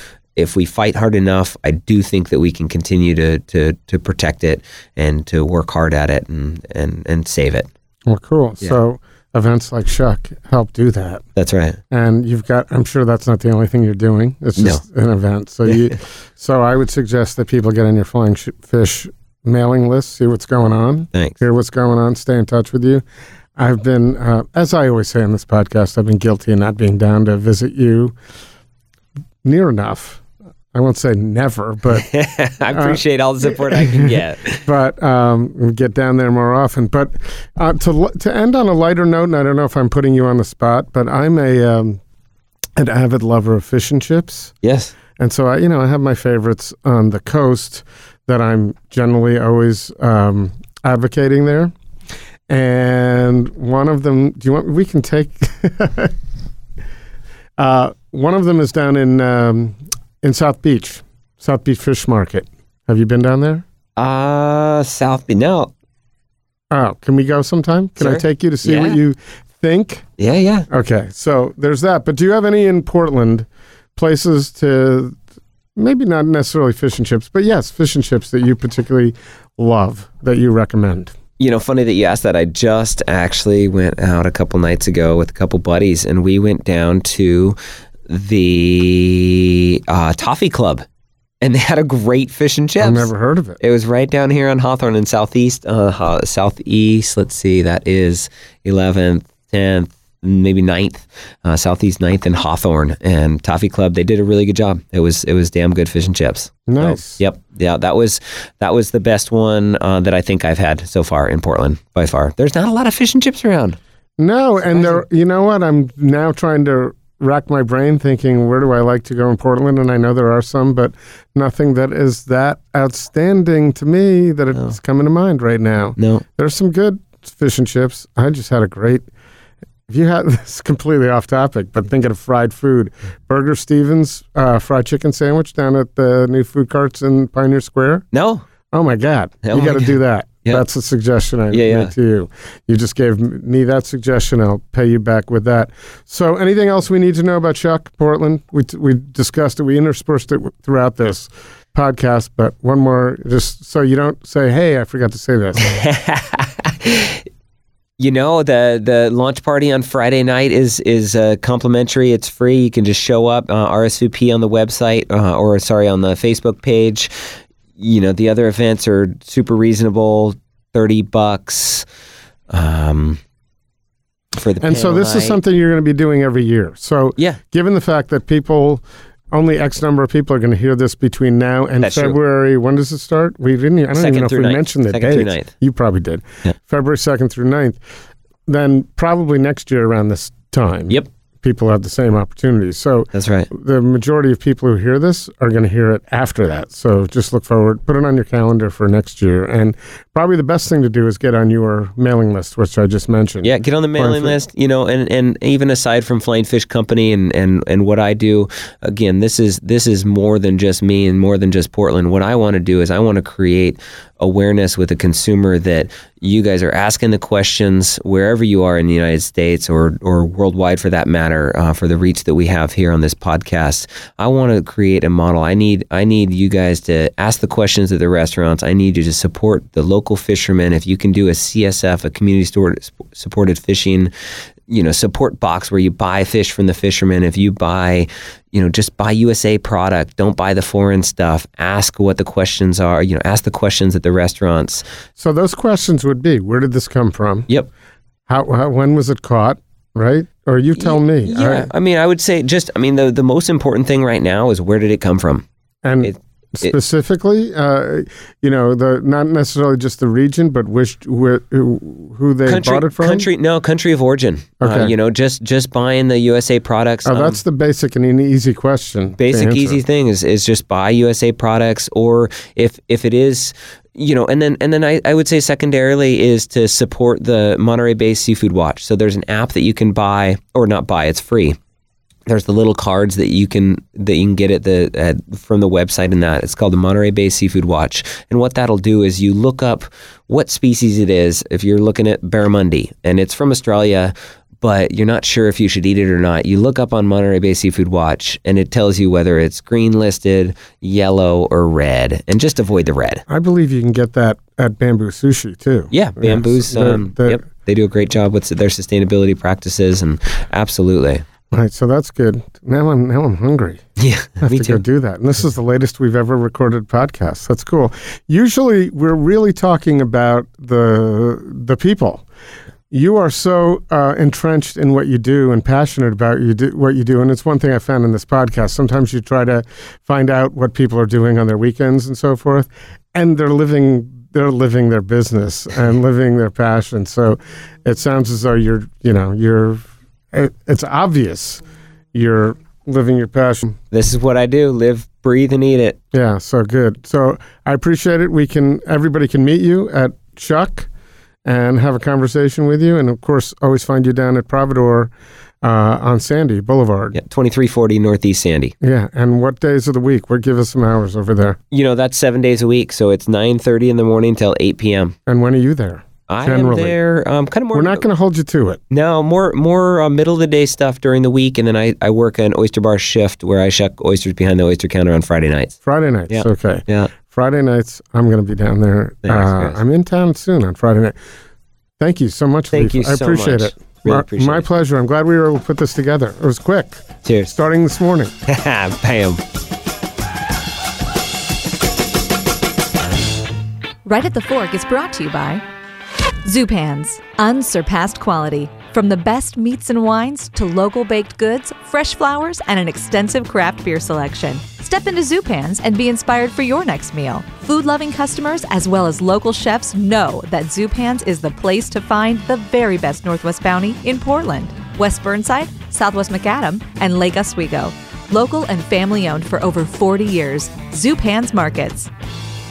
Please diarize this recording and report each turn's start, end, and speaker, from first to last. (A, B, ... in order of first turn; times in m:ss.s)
0:00.4-0:07.7 A
0:08.1-0:11.2 B
0:11.4-0:11.8 A
0:11.9-0:23.0 B
0:23.6-0:28.2 B
0:29.4-0:30.2 B
0:30.7-0:32.1 B
0:31.9-0:34.7 A
0:32.7-0:42.0 B
0:42.8-0:44.5 B
0:44.6-0:44.9 A
0:45.2-0:51.7 B
0:52.5-0:56.1 B
0:57.6-1:03.6 B
1:04.0-1:05.7 A
1:06.7-1:10.0 B
1:08.0-1:09.0 A
1:10.2-1:10.7 A
1:10.7-1:15.2 B
1:15.8-1:21.1 B
1:21.4-1:27.6 A
1:28.1-1:30.8 A
1:31.4-1:33.1 A
1:32.8-1:33.6 B
1:33.6-1:53.8 A
1:46.7-1:47.2 B
1:54.2-2:09.1 B
1:54.6-1:55.0 A
2:06.0-2:06.2 A
2:09.9-2:18.0 B
2:18.1-2:18.4 A
2:18.7-2:35.7 B
2:19.4-2:20.6 A
2:21.5-2:21.9 A
2:35.6-2:37.2 A
2:38.0-2:47.1 A
2:47.8-2:51.9 A
2:52.5-2:53.2 A
2:54.4-2:55.4 A
2:54.6-3:07.8 B
3:01.8-3:02.2 A
3:04.0-3:05.5 A
3:08.5-3:24.4 B
3:13.1-3:13.5 A
3:23.4-3:54.1 A
3:54.7-4:04.8 A
4:05.2-4:07.5 B
4:08.3-4:11.7 B
4:10.8-4:15.4 A
4:15.8-4:23.3 B
4:16.0-4:16.8 A
4:22.5-4:27.4 A
4:24.6-4:24.9 B
4:27.1-4:29.8 B
4:29.2-4:41.6 A
4:42.3-5:03.2 A
5:03.3-5:07.4 B
5:05.9-5:11.2 A
5:11.5-5:13.8 B
5:14.0-5:14.8 A
5:14.4-5:22.2 B
5:22.9-5:41.6 B
5:42.1-5:43.8 B
5:43.9-5:46.0 A
5:46.1-5:50.9 B
5:51.4-5:55.1 B
5:55.6-5:57.2 B
5:57.1-5:58.7 A
5:58.8-6:01.6 B
6:01.7-6:05.1 A
6:05.3-6:07.0 B
6:06.3-6:08.0 A
6:07.7-6:08.8 B
6:08.9-6:15.8 A
6:15.8-6:21.2 B
6:16.3-6:17.1 A
6:19.2-6:19.8 A
6:22.0-6:28.3 B
6:22.7-6:24.6 A
6:27.2-6:27.5 A
6:28.5-6:29.4 A
6:34.0-6:35.6 C
6:36.4-7:02.1 C